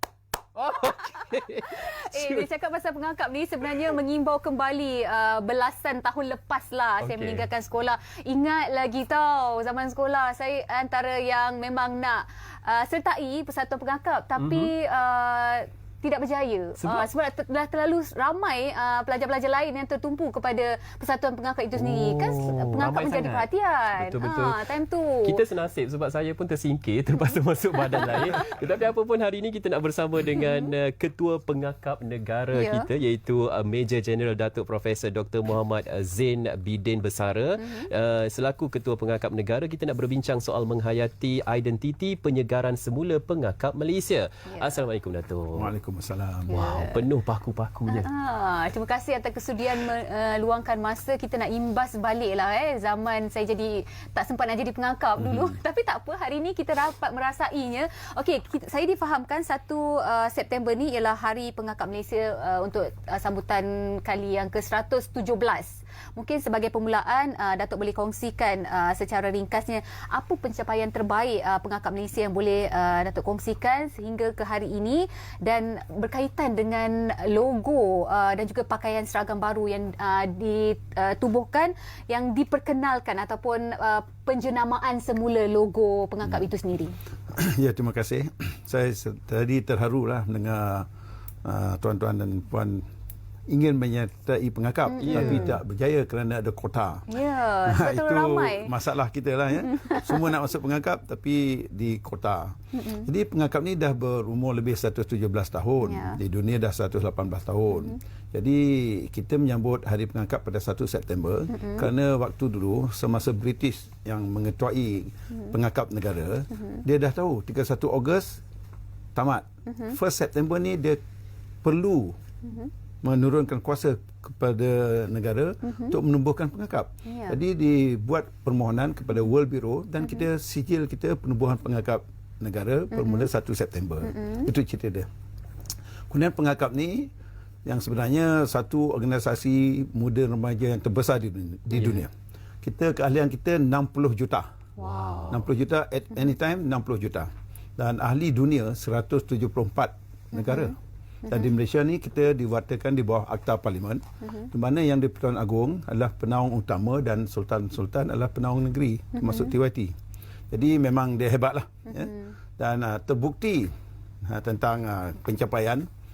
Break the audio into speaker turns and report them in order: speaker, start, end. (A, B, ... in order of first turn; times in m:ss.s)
0:00.6-0:02.5 A
0:01.6-0:25.4 B
0:07.0-0:07.5 A
0:14.4-0:14.7 A
0:16.8-0:17.1 A
0:21.8-0:24.7 A
0:25.2-0:45.7 A
0:27.2-0:28.4 B
0:30.4-0:30.7 B
0:32.5-0:32.9 B
0:37.6-0:37.9 B
0:44.5-0:44.8 B
0:45.5-0:46.8 C
0:46.5-0:48.1 A
0:46.5-0:47.0 B
0:47.9-1:27.0 B
1:27.3-1:30.9 C
1:31.4-1:32.8 C
1:33.5-1:37.1 C
1:34.9-1:35.6 B
1:35.0-1:35.5 A
1:37.1-1:38.7 B
1:37.7-1:58.4 C
1:39.5-1:40.2 B
1:42.7-1:43.1 B
1:45.8-1:46.2 B
1:47.7-1:48.0 B
1:51.5-1:51.9 B
1:56.6-1:56.8 B
1:59.2-2:01.0 C
1:59.7-2:00.0 B
2:01.6-2:02.2 C
2:02.4-2:02.7 B
2:03.0-2:15.1 C
2:05.6-2:06.0 B
2:07.1-2:07.4 B
2:10.0-2:10.2 B
2:12.9-2:13.3 B
2:14.0-2:14.5 B
2:16.1-2:17.1 C
2:17.6-2:22.1 C
2:22.6-2:24.5 C
2:24.8-2:25.5 A
2:25.3-2:40.0 C
2:30.3-2:30.7 B
2:34.2-2:34.5 B
2:39.2-2:39.5 B
2:40.5-2:43.7 C
2:41.9-2:42.3 B
2:44.3-2:45.9 C